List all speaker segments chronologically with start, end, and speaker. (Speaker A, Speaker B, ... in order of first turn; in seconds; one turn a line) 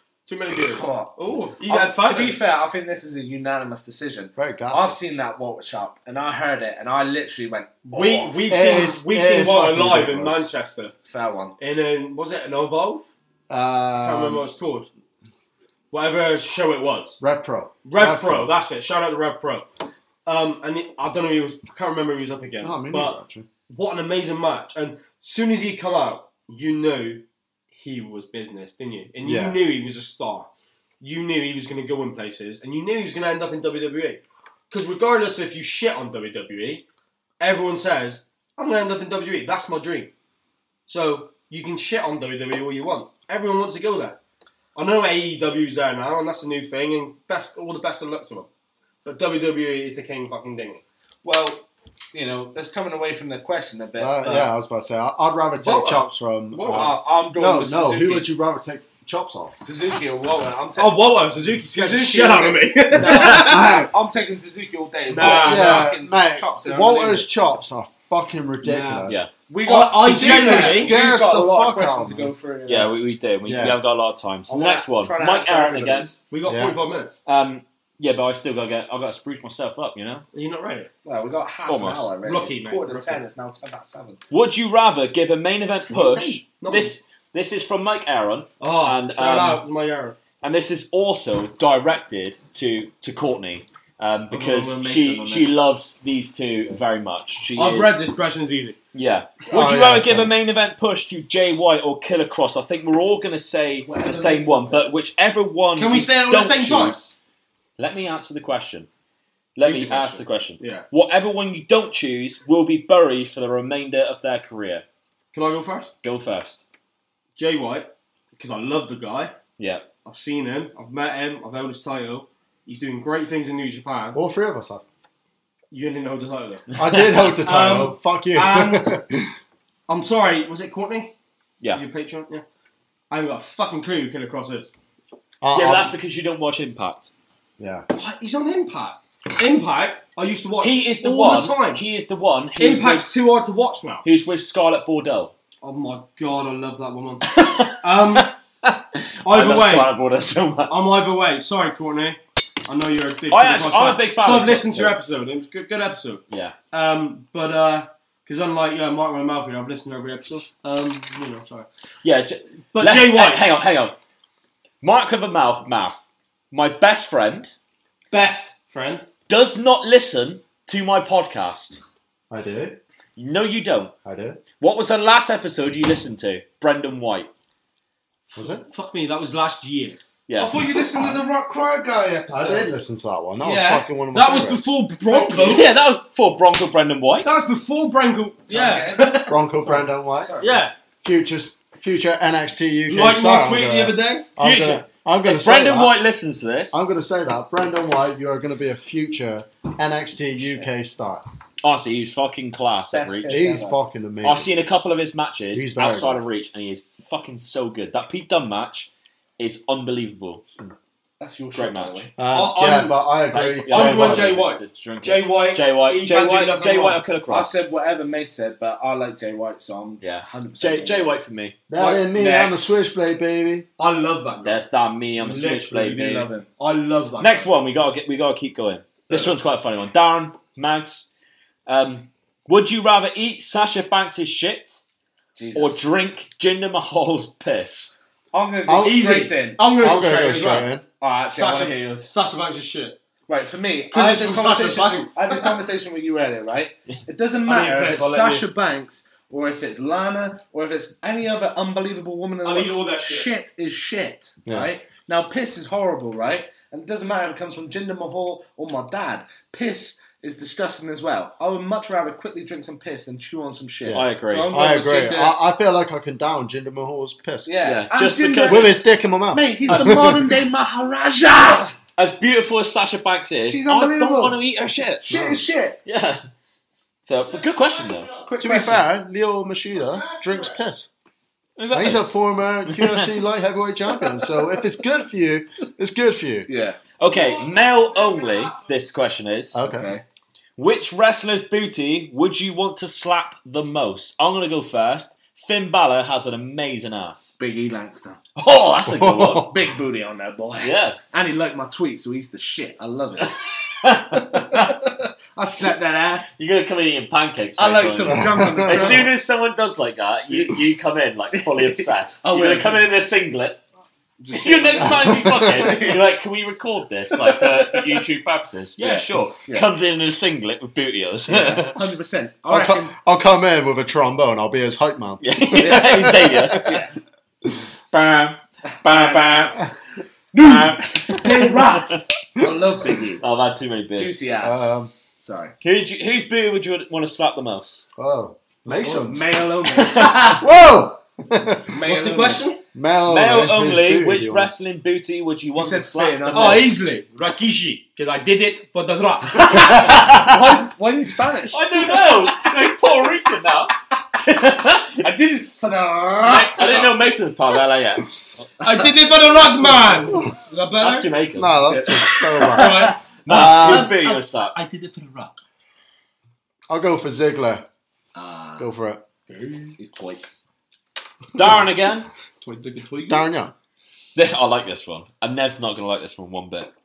Speaker A: 0.3-2.4
Speaker B: 0.5-8.8
Speaker C: 4.4-5.0
Speaker A: 7.9-10.9
Speaker C: 8.5-10.5
Speaker B: 11.1-11.6
Speaker A: 11.6-13.1
Speaker C: 13.5-14.4
Speaker A: 13.9-14.9
Speaker A: 15.9-17.2
Speaker C: 17.2-18.6
Speaker A: 17.8-19.7
Speaker A: 20.2-30.5
Speaker C: 22.6-23.5
Speaker C: 29.2-29.6
Speaker A: 31.0-36.8
Speaker A: 37.4-40.1
Speaker A: 40.9-44.2
Speaker A: 44.7-48.5
Speaker A: 49.0-50.8
Speaker B: 51.2-54.5
Speaker C: 54.0-59.6
Speaker A: 55.6-56.9
Speaker B: 56.6-58.3
Speaker B: 59.6-67.3
Speaker A: 60.7-63.7
Speaker C: 63.0-63.9
Speaker A: 65.1-65.9
Speaker C: 65.2-69.2
Speaker A: 68.6-69.1
Speaker B: 69.5-72.9
Speaker A: 69.6-71.0
Speaker C: 70.0-72.3
Speaker D: 72.7-76.1
Speaker C: 73.5-73.8
Speaker B: 74.5-76.2
Speaker A: 76.3-77.1
Speaker C: 76.5-76.8
Speaker D: 77.3-80.3
Speaker A: 80.3-80.9
Speaker B: 81.0-84.2
Speaker D: 81.7-82.1
Speaker A: 82.2-83.3
Speaker D: 84.3-89.6
Speaker A: 85.9-87.0
Speaker A: 88.6-90.2
Speaker D: 90.4-98.0
Speaker A: 94.3-95.5
Speaker B: 94.8-95.4
Speaker A: 97.5-98.8
Speaker D: 98.9-107.1
Speaker C: 99.5-100.3
Speaker B: 103.8-105.0
Speaker A: 105.8-107.0
Speaker D: 107.8-108.9
Speaker D: 109.5-114.8
Speaker A: 109.6-110.9
Speaker A: 115.3-115.9
Speaker D: 116.0-116.6
Speaker A: 117.4-119.4
Speaker D: 119.6-119.9
Speaker A: 120.0-124.2
Speaker C: 124.1-124.8
Speaker A: 125.7-126.7
Speaker C: 126.8-129.3
Speaker A: 127.3-129.0
Speaker A: 129.9-131.1
Speaker A: 131.7-132.4
Speaker A: 133.1-134.7
Speaker C: 135.4-135.9
Speaker D: 135.5-137.1
Speaker C: 137.6-137.9
Speaker A: 137.9-141.8
Speaker D: 140.6-143.1
Speaker A: 142.6-144.1
Speaker D: 144.0-145.3
Speaker A: 145.6-148.3
Speaker D: 147.2-151.0
Speaker A: 149.2-149.9
Speaker A: 150.7-161.7
Speaker D: 153.3-155.0
Speaker D: 156.3-156.6
Speaker D: 162.0-164.0
Speaker A: 162.7-163.4
Speaker D: 164.8-166.0
Speaker D: 166.5-167.5
Speaker A: 168.1-169.1
Speaker D: 169.3-171.8
Speaker C: 172.3-172.8
Speaker D: 173.2-173.9
Speaker C: 174.1-174.4
Speaker D: 174.6-177.3
Speaker C: 178.3-178.6
Speaker A: 178.3-180.0
Speaker D: 180.3-180.6
Speaker B: 180.4-182.7
Speaker C: 182.3-184.8
Speaker B: 183.4-183.8
Speaker A: 184.1-185.7
Speaker B: 185.1-185.6
Speaker D: 185.4-187.3
Speaker A: 187.2-189.8
Speaker B: 188.5-190.6
Speaker C: 189.3-190.3
Speaker A: 190.4-190.7
Speaker C: 191.0-196.0
Speaker A: 192.9-194.3
Speaker D: 194.4-196.8
Speaker C: 196.7-201.2
Speaker D: 201.6-203.4
Speaker B: 202.9-203.8
Speaker C: 203.3-204.5
Speaker D: 204.2-210.5
Speaker C: 205.5-206.2
Speaker B: 211.2-212.1
Speaker D: 211.5-212.1
Speaker C: 212.2-214.4
Speaker A: 212.3-213.0
Speaker D: 213.3-217.6
Speaker A: 213.7-217.0
Speaker B: 217.3-221.1
Speaker D: 220.0-221.6
Speaker C: 221.7-223.7
Speaker A: 221.8-222.1
Speaker B: 221.9-222.6
Speaker A: 223.8-224.6
Speaker D: 224.4-226.3
Speaker A: 225.2-227.5
Speaker B: 225.9-226.5
Speaker D: 227.2-231.1
Speaker D: 231.7-234.8
Speaker B: 235.3-235.8
Speaker D: 235.6-237.9
Speaker B: 238.3-240.3
Speaker C: 238.7-239.0
Speaker A: 238.8-240.8
Speaker C: 239.8-240.8
Speaker B: 241.0-242.1
Speaker A: 241.3-243.0
Speaker B: 243.3-265.4
Speaker A: 243.9-245.6
Speaker A: 247.4-248.5
Speaker A: 252.4-253.3
Speaker C: 263.8-267.5
Speaker D: 263.9-264.5
Speaker B: 267.4-271.7
Speaker D: 267.6-268.9
Speaker C: 268.4-270.3
Speaker D: 269.7-270.0
Speaker D: 271.9-275.1
Speaker B: 273.4-274.4
Speaker B: 275.0-275.8
Speaker C: 275.1-275.4
Speaker D: 275.8-276.2
Speaker D: 277.1-278.1
Speaker B: 278.1-278.8
Speaker C: 278.4-280.9
Speaker D: 281.6-282.1
Speaker C: 281.7-286.5
Speaker D: 282.7-283.1
Speaker B: 286.5-286.8
Speaker D: 287.0-289.6
Speaker C: 289.5-289.9
Speaker B: 289.6-290.0
Speaker D: 290.6-297.3
Speaker B: 297.4-298.2
Speaker D: 298.4-299.5
Speaker C: 298.8-299.5
Speaker B: 299.2-303.4
Speaker D: 300.6-301.0
Speaker D: 303.2-304.8
Speaker B: 304.1-306.4
Speaker D: 306.4-313.6
Speaker B: 307.6-309.1
Speaker C: 308.1-309.0
Speaker B: 311.4-312.9
Speaker B: 314.2-316.0
Speaker D: 314.3-321.8
Speaker B: 317.2-317.9
Speaker B: 318.8-319.7
Speaker B: 321.3-322.9
Speaker C: 322.5-326.3
Speaker D: 325.2-326.8
Speaker B: 325.7-325.9
Speaker B: 326.5-326.9
Speaker D: 327.9-329.6
Speaker B: 328.8-329.6
Speaker B: 330.3-333.2
Speaker D: 330.4-331.9
Speaker D: 333.2-334.2
Speaker B: 333.9-335.5
Speaker C: 334.4-334.9
Speaker D: 335.6-337.8
Speaker C: 338.0-339.3
Speaker B: 338.7-340.4
Speaker D: 339.8-340.4
Speaker C: 340.2-341.7
Speaker B: 341.7-342.5
Speaker A: 341.8-342.6
Speaker C: 342.7-344.5
Speaker D: 343.1-346.7
Speaker B: 345.6-346.8
Speaker A: 346.3-349.9
Speaker B: 349.4-351.9
Speaker D: 351.5-355.1
Speaker B: 355.0-356.9
Speaker D: 356.2-358.3
Speaker A: 358.6-361.1
Speaker B: 358.6-358.9
Speaker D: 360.8-362.6
Speaker C: 361.3-363.9
Speaker A: 362.6-365.4
Speaker D: 363.2-364.6
Speaker C: 366.7-367.7
Speaker B: 368.1-368.7
Speaker C: 368.6-369.0
Speaker A: 369.3-369.7
Speaker B: 369.8-370.3
Speaker D: 371.3-372.1
Speaker A: 372.4-373.3
Speaker C: 373.1-373.5
Speaker D: 374.1-376.7